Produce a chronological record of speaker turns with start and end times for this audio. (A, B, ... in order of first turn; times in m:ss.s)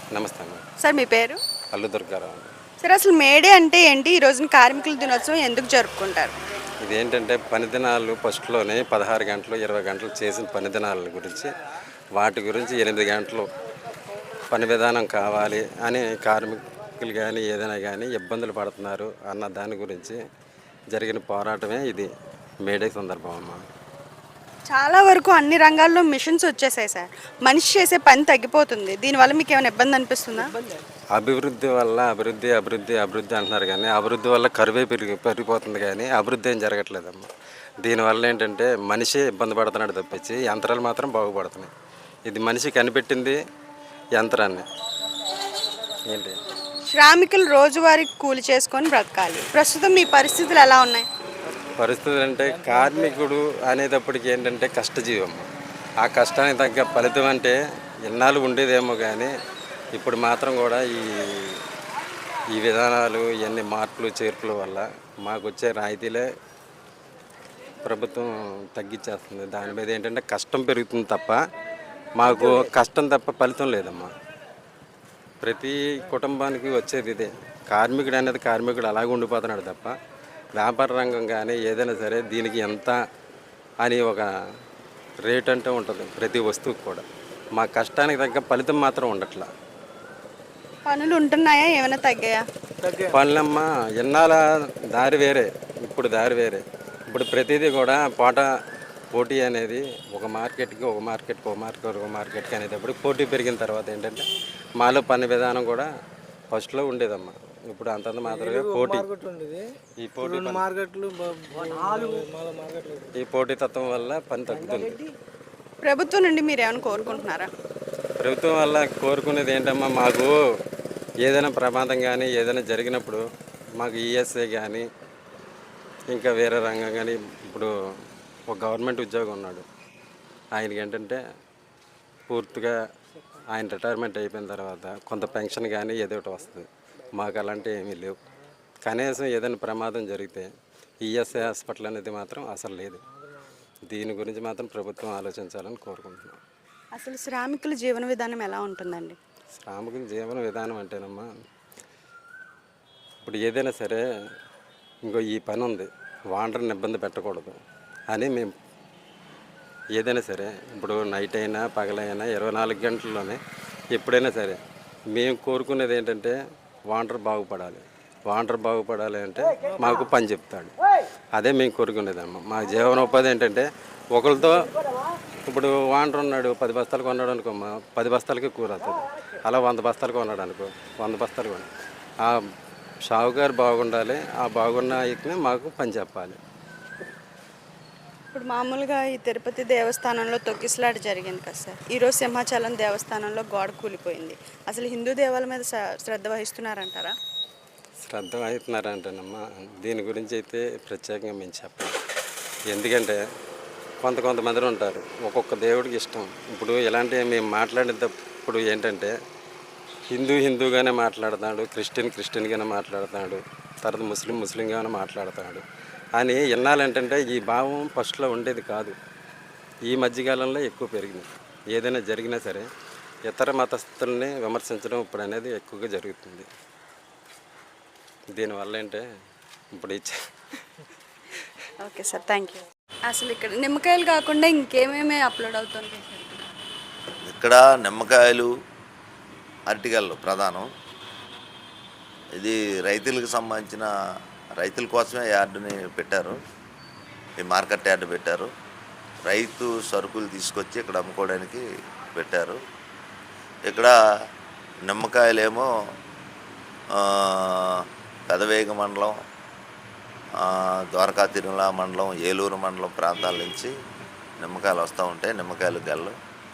0:00.2-0:00.6 A
0:00.8-0:01.4 B
0:01.7-0:02.5 A
0:02.8-0:06.4 B
0:06.9-0:11.5 A
0:12.2-0:13.5 A
0:14.5-0:20.2 A
0:20.9-0:22.1 A
0:22.6-0:23.6 A
0:24.7-0:30.5 B
0:30.4-0:30.7 C
0:31.2-0:37.3 A
0:37.8-0:41.7 A
0:42.3-0:43.4 A
0:44.2-0:44.6 A
0:46.1-0:46.4 A
0:46.9-0:51.1 B
0:51.8-0:55.4 A
0:52.6-0:52.9 C
0:56.0-0:57.6 A
0:58.1-0:59.3 A
1:00.0-1:01.6 A
1:02.6-1:06.3 A
1:07.8-1:11.4 A
1:12.2-1:14.1 A
1:15.4-1:19.9 A
1:20.6-1:23.0 A
1:23.8-1:24.3 A
1:25.2-1:27.0 A
1:27.6-1:29.5 A
1:30.8-1:32.4 B
1:32.8-1:33.2 C
1:33.1-1:34.4 A
1:34.9-1:38.5 A
1:39.1-1:44.3 A
1:44.8-1:45.9 A
1:46.5-1:49.1 A
1:48.3-1:49.6 C
1:50.0-1:50.6 A
1:50.2-1:53.1 C
1:53.2-1:55.0 A
1:54.7-1:55.1 C
1:55.8-1:57.5 B
1:58.2-2:00.3 A
2:01.2-2:03.2 A
2:03.8-2:04.8 A
2:06.1-2:07.7 A
2:08.5-2:09.7 A
2:10.6-2:11.2 A
2:12.3-2:12.8 A
2:13.5-2:18.2 A
2:18.8-2:20.5 A
2:21.1-2:23.0 A
2:23.9-2:26.4 A
2:27.0-2:29.2 B
2:29.6-2:31.3 A
2:33.2-2:34.0 A
2:35.0-2:37.6 A
2:38.1-2:38.5 A
2:40.0-2:43.4 A
2:43.9-2:44.6 A
2:45.1-2:46.4 A
2:46.9-2:50.7 A
2:51.4-2:54.7 A
2:55.4-3:01.7 A
3:03.1-3:06.4 A
3:08.3-3:17.2 B
3:18.0-3:21.9 A
3:22.7-3:23.2 A
3:24.0-3:29.1 A
3:30.1-3:35.6 A
3:36.2-3:39.0 A
3:39.9-3:42.7 A
3:43.3-3:46.5 A
3:48.4-3:49.0 A
3:49.8-3:50.2 A
3:51.8-3:56.4 B
3:57.3-3:58.5 D
3:59.7-4:00.7 D
4:02.4-4:03.9 D
4:04.6-4:06.4 D
4:07.4-4:08.5 D
4:09.3-4:12.6 D
4:13.7-4:14.0 D
4:14.9-4:15.7 D
4:16.9-4:19.2 D
4:20.4-4:23.7 D
4:24.4-4:26.2 D